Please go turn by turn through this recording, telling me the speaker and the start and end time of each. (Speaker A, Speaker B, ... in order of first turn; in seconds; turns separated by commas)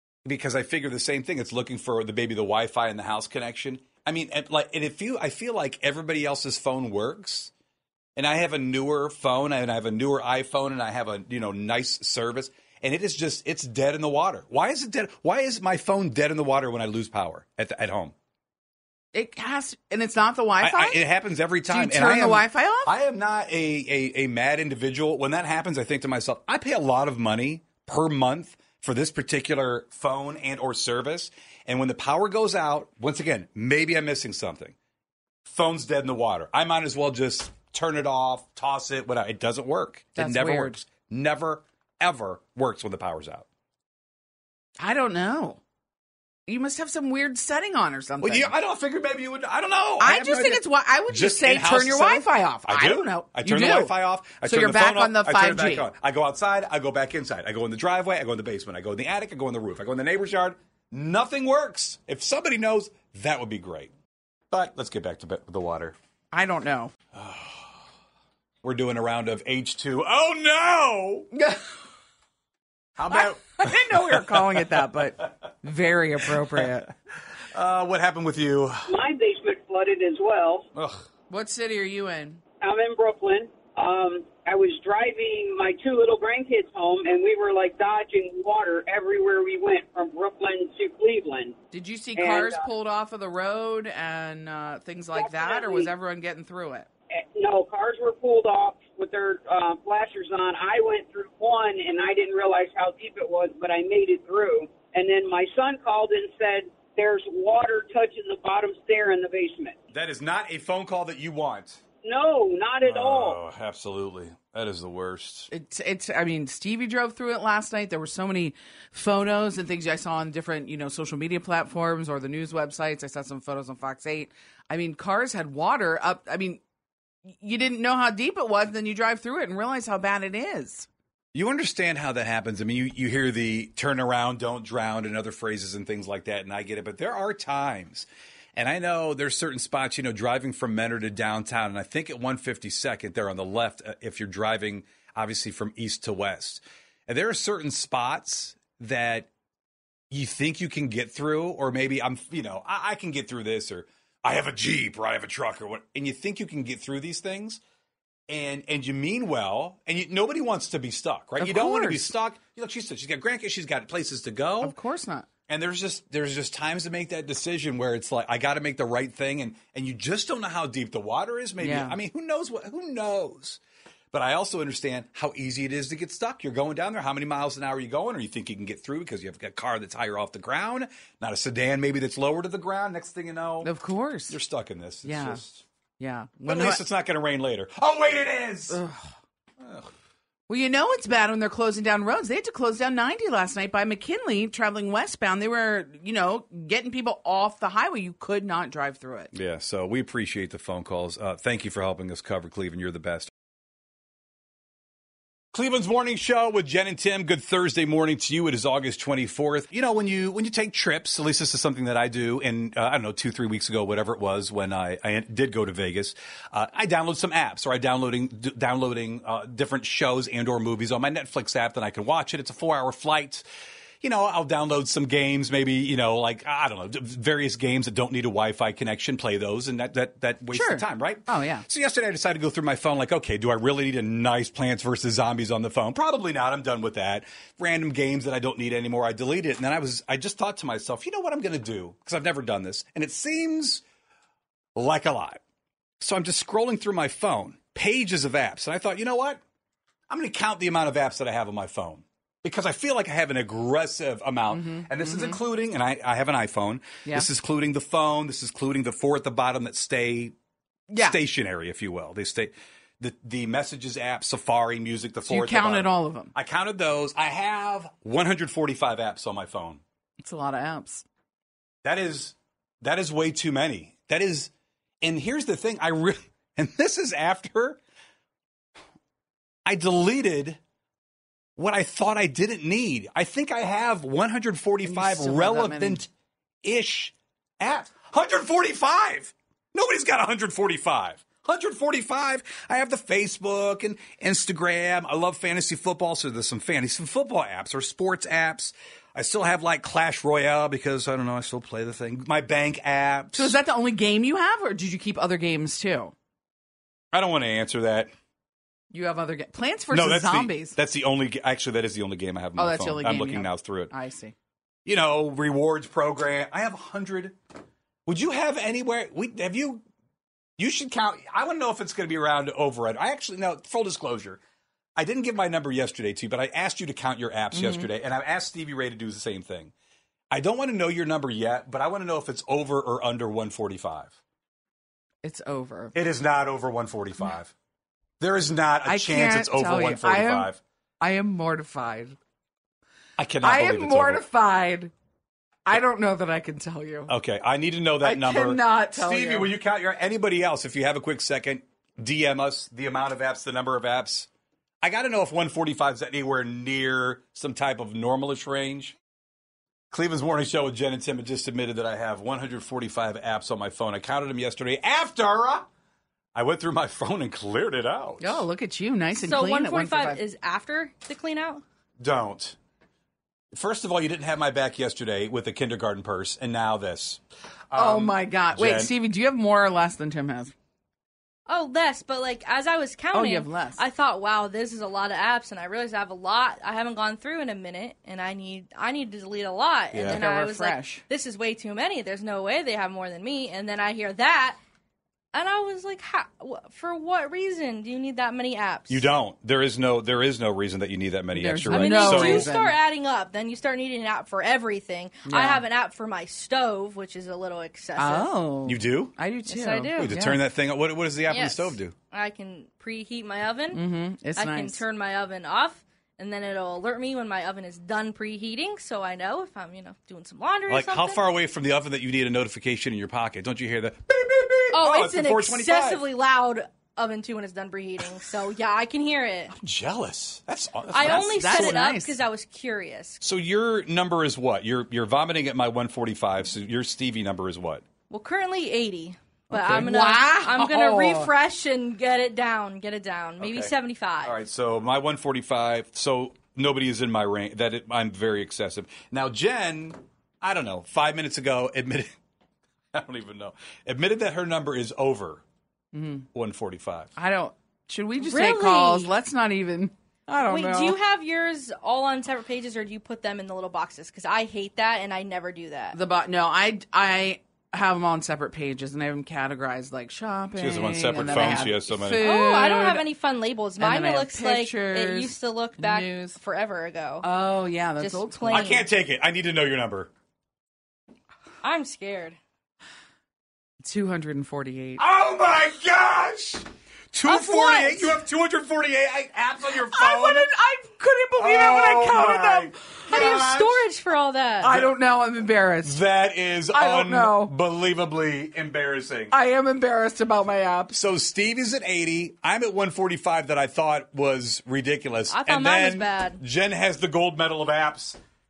Speaker A: 0.2-7.5, Speaker A: 8.2-18.1, Speaker B: 19.1-21.0, Speaker A: 20.6-34.7, Speaker B: 21.6-22.9, Speaker A: 35.5-43.5, Speaker B: 40.1-40.8, Speaker B: 44.8-45.6, Speaker B: 46.5-48.5, Speaker A: 48.2-63.9, Speaker B: 50.0-55.9, Speaker A: 64.5-66.0, Speaker B: 66.3-66.9, Speaker A: 67.1-67.7, Speaker A: 68.6-71.3, Speaker B: 71.3-71.6, Speaker A: 73.0-75.0, Speaker B: 73.1-76.9, Speaker A: 76.2-76.8, Speaker A: 77.5-78.9, Speaker C: 78.9-80.6, Speaker A: 80.7-81.0, Speaker B: 81.3-82.4, Speaker C: 82.6-91.5, Speaker B: 91.7-96.9, Speaker C: 92.1-92.6, Speaker C: 95.1-95.9, Speaker C: 97.1-109.7, Speaker A: 109.9-111.8, Speaker C: 112.0-113.4, Speaker A: 112.8-115.5, Speaker B: 115.5-126.6, Speaker B: 127.4-130.9, Speaker A: 131.3-149.3, Speaker A: 150.1-157.6, Speaker A: 158.3-164.8, Speaker B: 161.4-162.1, Speaker B: 164.6-165.3, Speaker A: 165.4-173.6, Speaker B: 171.6-172.0, Speaker A: 174.1-183.7, Speaker B: 183.6-184.4, Speaker A: 184.3-185.6, Speaker B: 185.0-185.4, Speaker B: 186.0-186.8, Speaker A: 186.4-188.8, Speaker B: 188.7-189.1, Speaker A: 189.6-189.9, Speaker B: 190.5-199.3, Speaker A: 199.3-203.3, Speaker A: 205.5-223.4, Speaker A: 224.0-243.8, Speaker B: 230.5-231.7, Speaker A: 244.7-245.4, Speaker A: 246.0-249.4, Speaker A: 250.1-260.3, Speaker B: 254.5-255.4, Speaker B: 260.9-261.2, Speaker A: 260.9-269.8, Speaker B: 265.2-266.3, Speaker B: 270.2-271.0, Speaker A: 271.8-274.5, Speaker A: 275.0-277.8, Speaker A: 279.6-280.6, Speaker A: 281.6-286.1, Speaker B: 284.8-286.0, Speaker A: 286.6-303.6, Speaker B: 303.3-306.1, Speaker A: 307.1-308.1, Speaker B: 308.9-310.8, Speaker A: 309.9-313.9, Speaker B: 312.5-314.3, Speaker A: 314.8-317.4, Speaker A: 318.1-319.8, Speaker A: 320.6-324.4, Speaker A: 324.9-329.7, Speaker B: 327.5-327.9, Speaker A: 330.3-334.2, Speaker B: 335.2-335.9, Speaker A: 335.9-337.5, Speaker A: 338.2-340.6, Speaker B: 338.8-342.2, Speaker A: 343.2-344.2, Speaker B: 343.4-344.9, Speaker B: 345.6-347.1, Speaker A: 347.1-354.3, Speaker B: 348.0-349.5, Speaker A: 354.8-358.9, Speaker A: 359.9-365.7, Speaker A: 366.3-368.4, Speaker B: 368.2-370.2, Speaker D: 369.2-371.6, Speaker A: 372.0-372.6, Speaker A: 373.5-377.2, Speaker A: 377.7-378.9, Speaker B: 377.7-380.5, Speaker D: 381.5-394.6, Speaker B: 383.1-383.8, Speaker A: 389.9-390.2, Speaker B: 390.1-391.0, Speaker D: 395.3-399.1, Speaker A: 398.9-402.5, Speaker B: 401.3-402.8, Speaker D: 401.7-408.3, Speaker B: 405.3-405.6, Speaker B: 408.0-410.4, Speaker A: 408.6-409.1, Speaker D: 409.4-410.1, Speaker A: 409.9-411.9, Speaker D: 411.3-413.8, Speaker B: 413.7-414.8, Speaker D: 414.4-421.2, Speaker A: 420.7-426.1, Speaker D: 424.7-429.5, Speaker A: 429.5-431.4, Speaker B: 430.9-432.2, Speaker D: 430.9-433.2, Speaker A: 433.2-437.9, Speaker D: 438.1-444.4, Speaker B: 439.5-441.3, Speaker A: 443.4-452.1, Speaker A: 452.9-455.4, Speaker B: 455.9-456.2, Speaker A: 456.3-457.1, Speaker B: 457.1-461.0, Speaker D: 458.2-459.1, Speaker D: 460.4-466.0, Speaker B: 465.9-473.1, Speaker A: 470.6-472.3, Speaker D: 472.2-477.3, Speaker B: 473.8-476.4, Speaker B: 477.2-478.8, Speaker D: 478.0-478.9, Speaker A: 478.5-480.1, Speaker D: 481.6-482.4, Speaker B: 483.8-485.0, Speaker A: 485.0-490.5, Speaker D: 487.2-488.2, Speaker B: 489.7-493.4, Speaker A: 491.4-493.8, Speaker D: 493.1-494.7, Speaker B: 494.6-496.0, Speaker A: 495.8-499.3, Speaker B: 496.7-497.6, Speaker B: 499.3-501.0, Speaker A: 500.9-508.2, Speaker D: 505.3-506.4